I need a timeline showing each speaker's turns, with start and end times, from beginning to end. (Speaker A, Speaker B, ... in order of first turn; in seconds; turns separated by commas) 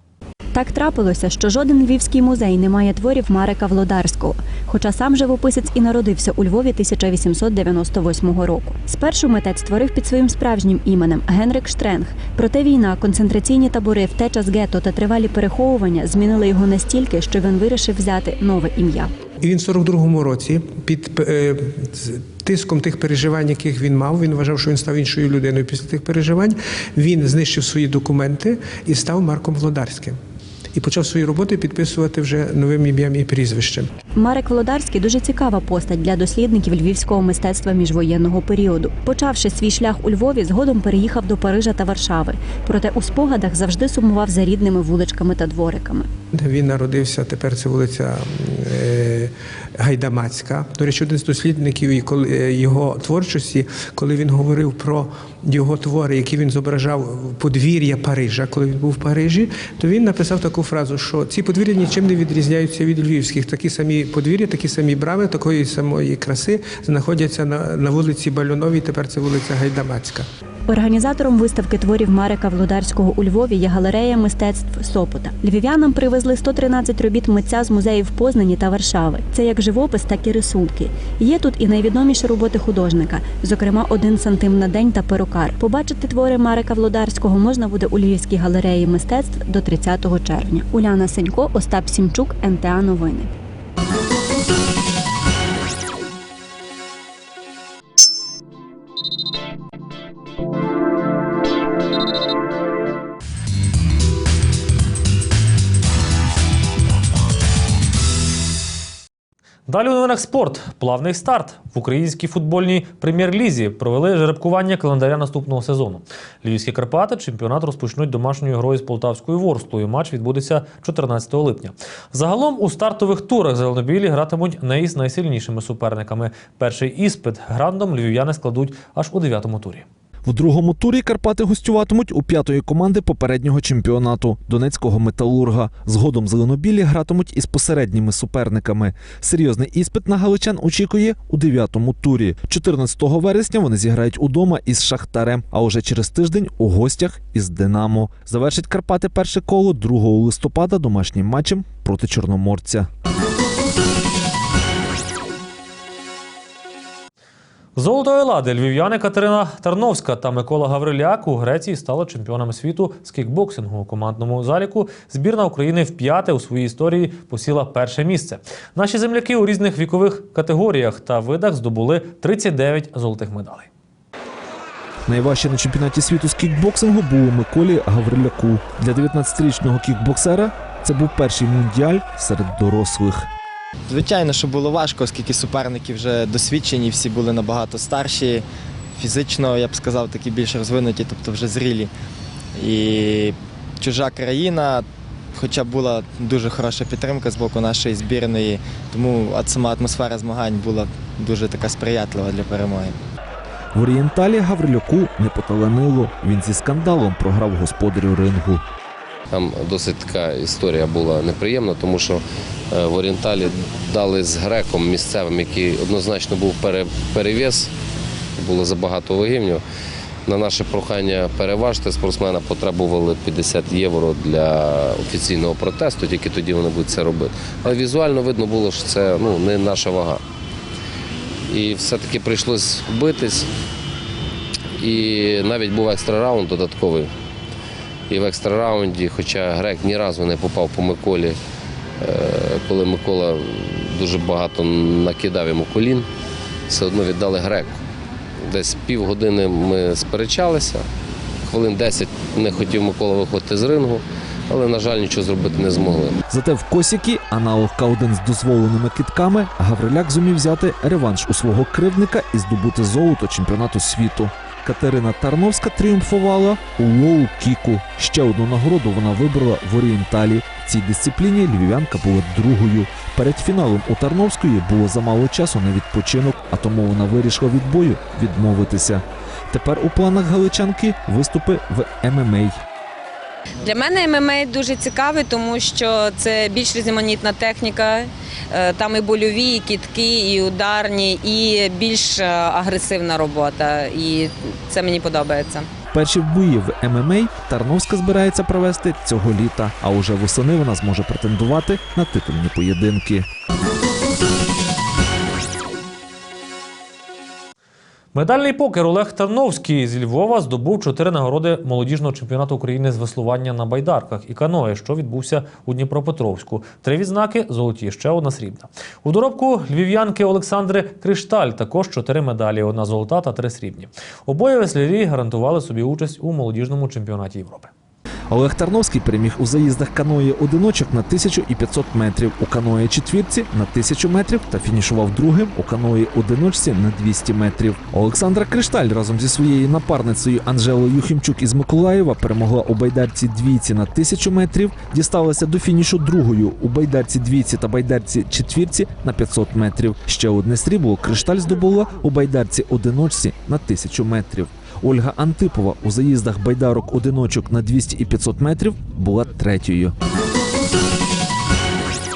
Speaker A: 0.6-19.1, Speaker B: 19.4-30.1, Speaker B: 30.8-33.8, Speaker A: 34.2-46.1, Speaker B: 46.4-48.1, Speaker B: 48.6-49.3, Speaker B: 49.8-70.2, Speaker A: 70.7-93.3, Speaker C: 109.7-129.8, Speaker D: 130.2-152.9, Speaker C: 157.8-173.7, Speaker D: 175.1-183.3, Speaker E: 183.9-188.4, Speaker E: 189.0-191.9, Speaker E: 192.6-203.0, Speaker D: 203.7-208.6, Speaker F: 209.3-217.7, Speaker F: 218.4-219.6, Speaker F: 220.3-230.2, Speaker F: 231.5-233.5, Speaker F: 234.8-237.1, Speaker F: 238.1-241.4, Speaker F: 242.0-246.1, Speaker F: 246.7-247.8, Speaker F: 248.5-250.8, Speaker F: 251.5-256.1, Speaker D: 256.3-282.6, Speaker G: 283.6-295.6, Speaker D: 295.9-303.3, Speaker C: 308.1-327.7, Speaker D: 328.3-359.9